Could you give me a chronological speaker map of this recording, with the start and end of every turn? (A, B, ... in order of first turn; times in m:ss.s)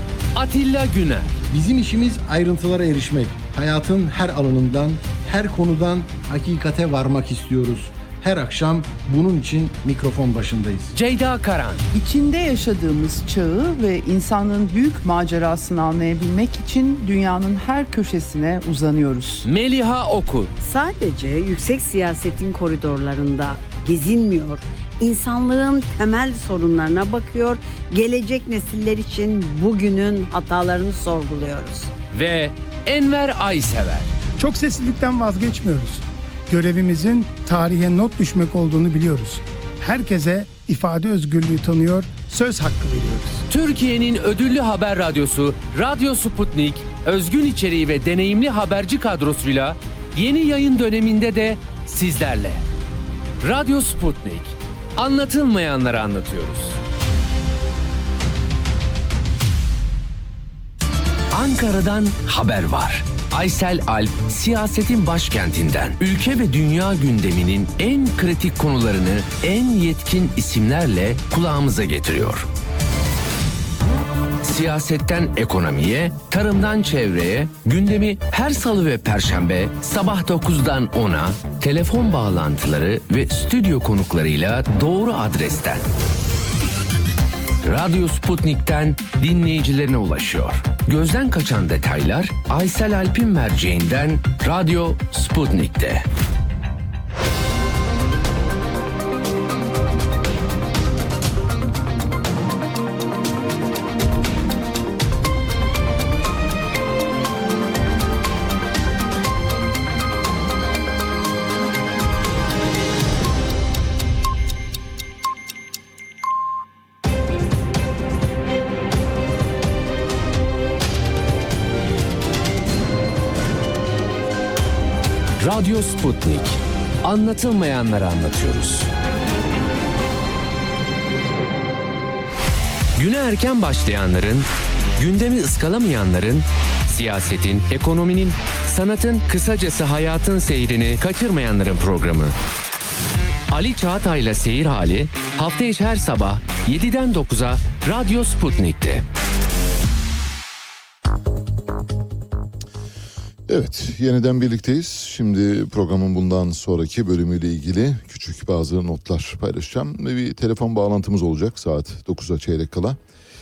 0:00.3-0:01.3 A
0:01.5-0:10.9 B
0:10.9-0:11.8 A
0:11.9-0:19.5 C
0:19.4-0:20.5 A
0:20.6-0:31.9 D
0:32.1-0:34.1 A
0:34.4-0:43.4 E
0:43.5-0:52.6 A
0:53.4-0:56.8 A
1:01.3-1:12.5 A
1:14.4-1:25.8 A
1:27.6-1:36.1 A
2:05.4-2:08.9 A
2:13.0-2:22.4 A
2:23.5-2:29.0 A
2:33.5-2:43.0 F